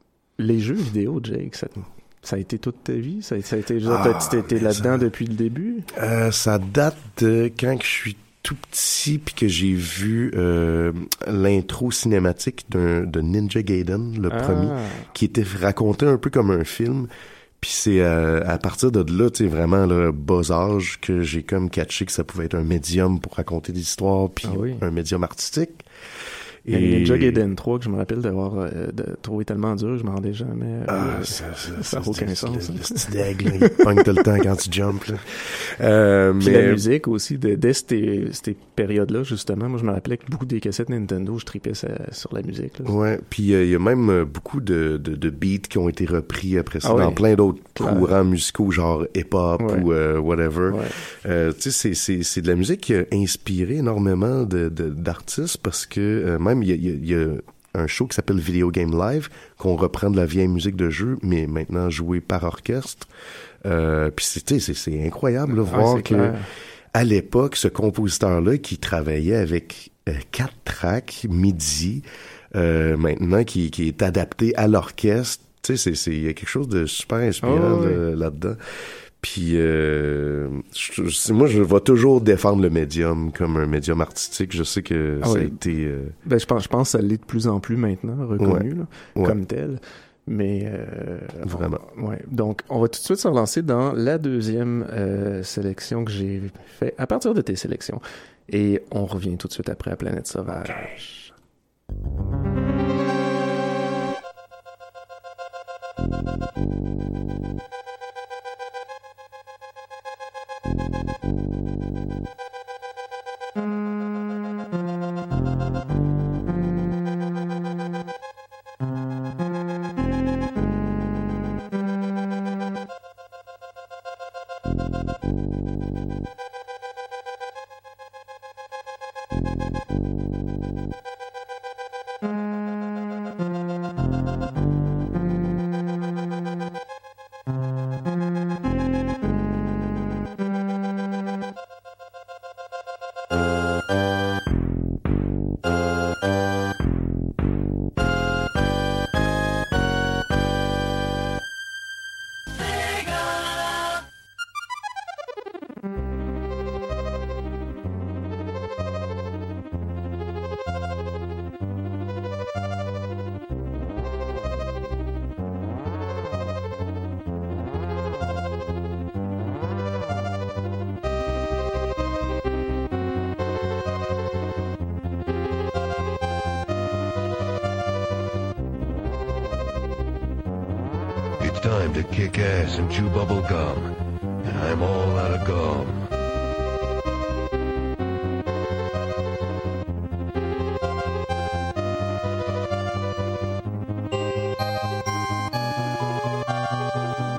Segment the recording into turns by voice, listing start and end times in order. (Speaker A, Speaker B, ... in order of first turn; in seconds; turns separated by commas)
Speaker A: 0.4-5.9, Speaker B: 3.8-5.0, Speaker B: 5.9-25.9, Speaker A: 14.3-15.1, Speaker A: 24.4-24.8, Speaker B: 26.6-27.4, Speaker A: 26.7-34.2, Speaker B: 30.9-36.8, Speaker A: 36.4-42.9, Speaker B: 42.8-63.1, Speaker A: 46.8-48.1, Speaker A: 49.6-49.9, Speaker A: 50.7-51.0, Speaker B: 63.6-66.4, Speaker A: 65.7-66.5, Speaker B: 66.9-78.6, Speaker A: 77.4-78.0, Speaker B: 79.2-86.1, Speaker A: 85.2-85.6, Speaker A: 86.2-101.3, Speaker B: 88.4-88.6, Speaker B: 91.4-91.8, Speaker C: 181.4-183.9, Speaker C: 184.4-186.1